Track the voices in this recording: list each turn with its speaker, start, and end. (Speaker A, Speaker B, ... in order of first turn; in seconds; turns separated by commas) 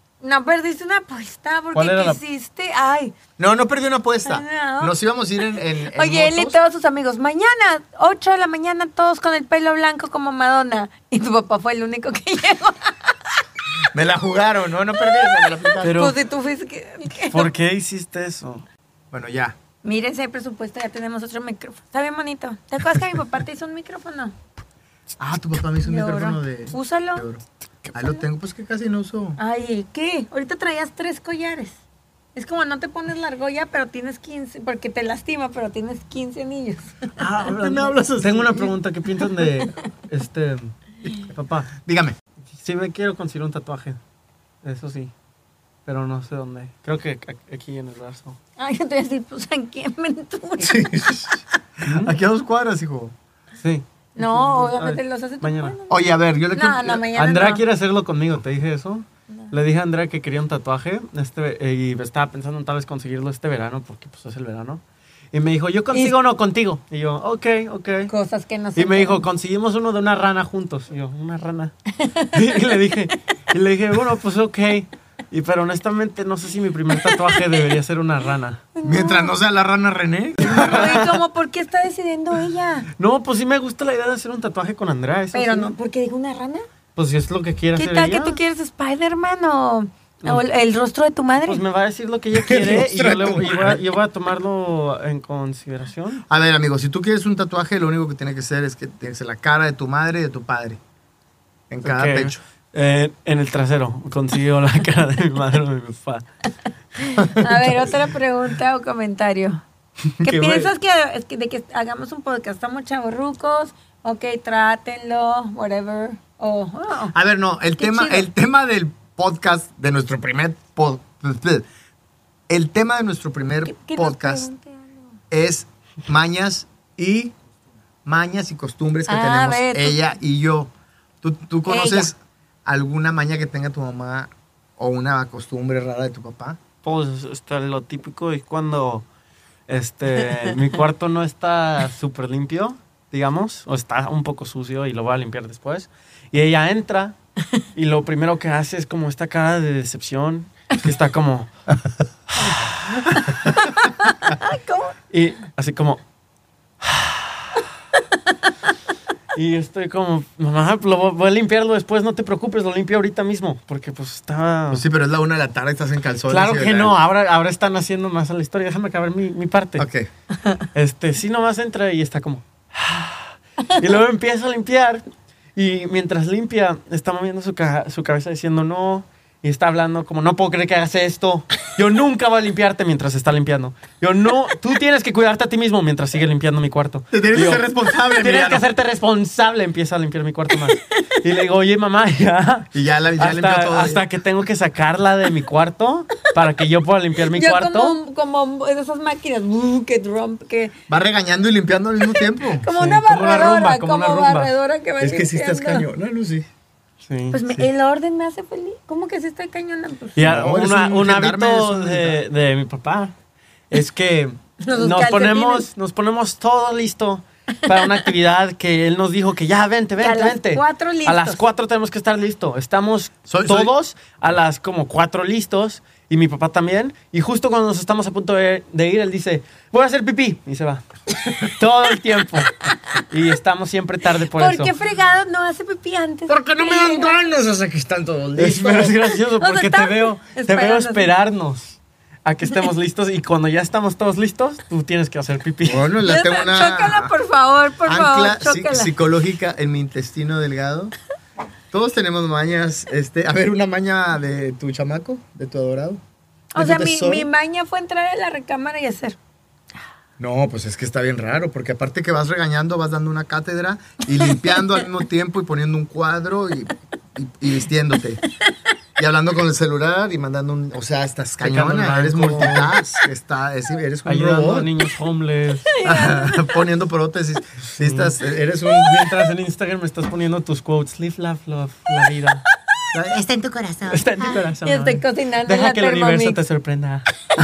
Speaker A: 0.2-3.1, Speaker B: 1.7-2.2, Speaker C: 3.4-6.6, Speaker A: 4.2-5.0, Speaker A: 5.5-13.4, Speaker C: 13.9-16.0, Speaker A: 15.0-17.5, Speaker B: 15.8-16.2, Speaker B: 17.2-18.7, Speaker C: 19.1-19.6, Speaker A: 19.8-24.4, Speaker C: 25.2-29.4, Speaker A: 25.8-27.3, Speaker A: 29.4-31.8, Speaker A: 32.4-38.0, Speaker C: 37.1-38.8, Speaker B: 38.2-41.7, Speaker C: 41.7-42.2, Speaker B: 42.5-44.0, Speaker B: 44.6-45.1, Speaker B: 45.9-48.4, Speaker A: 48.6-51.3, Speaker C: 50.6-53.1, Speaker B: 51.9-52.1, Speaker B: 53.6-55.7, Speaker A: 54.2-57.6, Speaker C: 55.9-57.1, Speaker B: 57.1-64.8, Speaker B: 65.3-68.1, Speaker A: 68.1-69.2, Speaker B: 68.8-71.7, Speaker A: 71.9-72.7, Speaker B: 72.3-78.6, Speaker A: 77.0-77.4, Speaker A: 78.8-79.3, Speaker C: 78.8-81.1, Speaker A: 80.4-82.9, Speaker B: 80.4-81.2, Speaker B: 83.0-85.7, Speaker A: 85.3-86.7, Speaker B: 87.0-88.4, Speaker A: 87.8-91.6, Speaker B: 91.4-96.2, Speaker C: 92.3-93.8, Speaker C: 96.3-100.8, Speaker C: 101.7-102.4, Speaker B: 101.8-106.2, Speaker A: 107.0-109.6, Speaker C: 107.2-107.9, Speaker C: 110.2-110.7, Speaker A: 110.2-117.2, Speaker C: 117.1-121.7, Speaker A: 117.8-118.3, Speaker C: 122.5-124.5, Speaker A: 123.6-125.2, Speaker C: 125.3-127.3, Speaker C: 128.1-130.7, Speaker A: 129.1-130.0, Speaker C: 131.2-136.6, Speaker A: 131.7-132.1, Speaker B: 136.8-139.1, Speaker B: 139.7-147.2, Speaker B: 147.7-151.5, Speaker B: 152.3-153.5, Speaker A: 153.1-154.9, Speaker B: 155.1-156.0, Speaker B: 156.8-157.6, Speaker B: 159.3-164.8, Speaker C: 164.7-166.9, Speaker B: 166.3-169.9, Speaker C: 169.8-170.1, Speaker B: 170.7-175.0, Speaker B: 175.6-198.0, Speaker C: 187.1-188.7, Speaker C: 192.7-194.0, Speaker A: 197.3-200.7, Speaker C: 200.9-202.7, Speaker A: 202.1-205.9, Speaker B: 202.7-204.5, Speaker C: 205.0-206.5, Speaker B: 207.0-207.7, Speaker A: 207.3-210.3, Speaker B: 210.2-213.1, Speaker C: 210.2-212.2, Speaker B: 213.7-234.7, Speaker A: 214.6-215.7, Speaker A: 217.7-218.0, Speaker A: 220.0-221.4, Speaker C: 223.3-223.7, Speaker A: 234.3-237.2, Speaker C: 236.3-239.1, Speaker B: 238.4-245.9, Speaker A: 239.4-241.1, Speaker C: 245.6-247.1, Speaker A: 246.0-248.9, Speaker C: 247.8-250.9, Speaker C: 251.7-256.0, Speaker A: 256.5-259.2, Speaker C: 256.6-257.3, Speaker C: 260.2-268.2, Speaker C: 269.0-274.7, Speaker B: 271.4-272.8, Speaker B: 274.1-275.7, Speaker A: 275.7-276.6, Speaker C: 275.8-279.1, Speaker B: 277.8-282.4, Speaker C: 282.9-284.1, Speaker B: 283.9-287.1, Speaker A: 284.6-286.4